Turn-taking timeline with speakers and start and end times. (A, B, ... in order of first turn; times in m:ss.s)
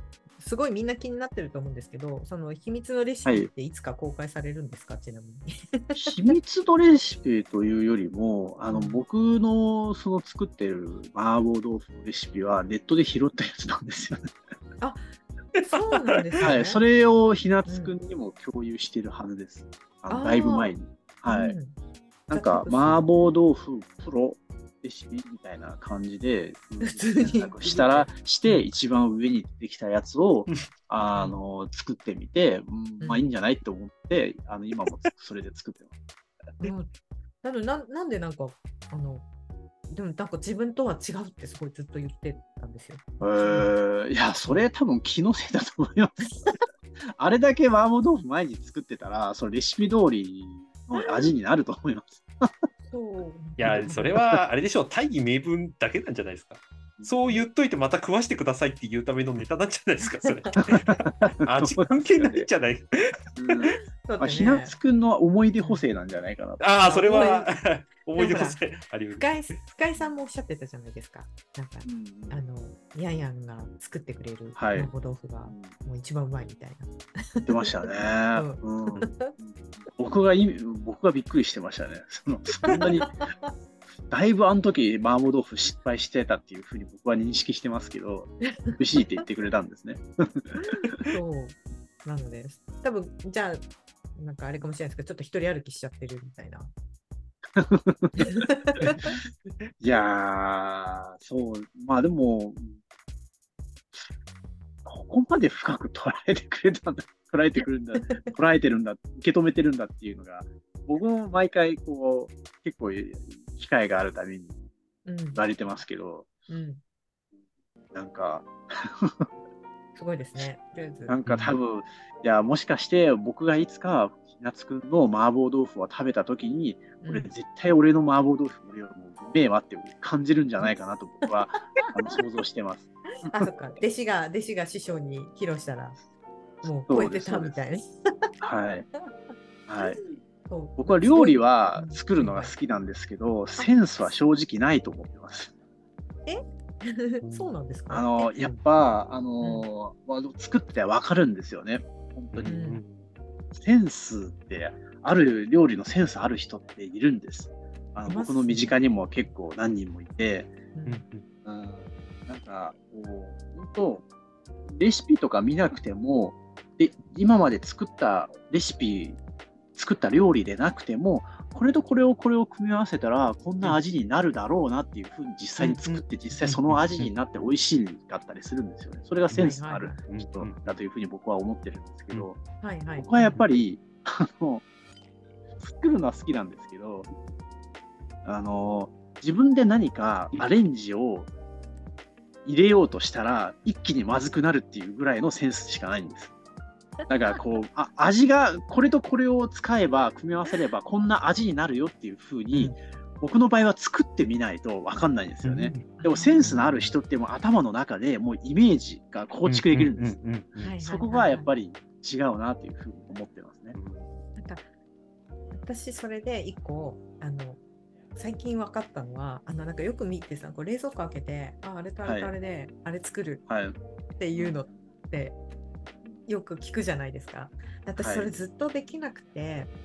0:00.4-0:06.4 A
0:05.9-0:14.3 B
0:08.7-0:09.0 A
0:14.8-0:15.0 A
0:15.6-0:16.8 A
0:16.4-0:21.5 B
0:17.6-0:17.9 A
0:20.1-0:20.7 A
0:21.2-0:21.8 A
0:22.3-0:36.0 B
0:22.3-0:23.0 A
0:26.8-0:28.6 A
0:33.0-0:33.3 A
0:36.6-0:36.9 A
0:37.4-0:39.2 A
0:39.9-0:43.7 A
0:43.2-0:46.4 B
0:47.2-0:52.5 B
0:52.9-0:54.2 A
0:53.6-1:00.9 C
1:00.6-1:01.0 A
1:00.7-1:02.5 B
1:01.4-1:03.7 C
1:03.4-1:06.6 B
1:04.0-1:04.8 A
1:06.6-1:09.4 C
1:06.8-1:07.5 A
1:08.2-1:08.6 A
1:09.1-1:17.6 A
1:11.8-1:12.4 B
1:14.6-1:14.9 B
1:15.5-1:15.7 B
1:17.4-1:23.2 B
1:18.3-1:19.3 A
1:22.7-1:23.5 A
1:24.1-1:31.0 B
1:31.0-1:33.6 A
1:34.2-1:36.7 A
1:37.6-1:39.1 B
1:38.2-1:39.1 A
1:39.8-1:42.7 B
1:44.8-1:54.6 B
1:55.0-1:55.4 A
1:55.3-1:56.3 B
1:56.5-1:56.8 A
1:57.9-1:59.2 B
2:00.0-2:01.2 A
2:01.1-2:13.5 B
2:01.2-2:01.5 C
2:07.0-2:07.3 A
2:13.2-2:16.0 A
2:16.6-2:18.3 A
2:16.9-2:17.5 B
2:18.4-2:18.9 B
2:19.7-2:20.0 B
2:19.8-2:22.5 A
2:20.8-2:25.5 B
2:26.2-2:28.6 A
2:27.2-2:27.5 C
2:27.9-2:32.5 B
2:29.4-2:29.6 A
2:32.3-2:33.1 C
2:32.4-2:32.8 A
2:33.5-2:40.5 B
2:38.1-2:38.7 A
2:40.7-2:41.0 A
2:40.9-2:41.2 C
2:41.4-2:44.0 B
2:44.7-2:49.2 B
2:49.7-3:02.4 B
2:55.8-2:57.1 C
2:59.3-3:00.0 A
3:00.1-3:00.6 C
3:02.6-3:03.3 A
3:03.0-3:04.6 B
3:05.6-3:07.1 B
3:08.2-3:11.3 B
3:12.4-3:16.3 B
3:17.0-3:17.4 A
3:17.1-3:30.2 B
3:25.4-3:25.9 C
3:25.9-3:26.6 A
3:26.4-3:26.9 C
3:29.4-3:30.8 C
3:30.6-3:31.5 A
3:30.8-3:33.8 B
3:33.7-3:34.1 C
3:34.4-3:34.6 A
3:35.5-3:37.6 A
3:38.2-3:43.4 A
3:42.0-3:42.3 B
3:43.5-3:43.8 B
3:44.2-3:45.4 A
3:44.3-3:44.8 B
3:46.2-3:49.7 A
3:48.0-3:48.3 B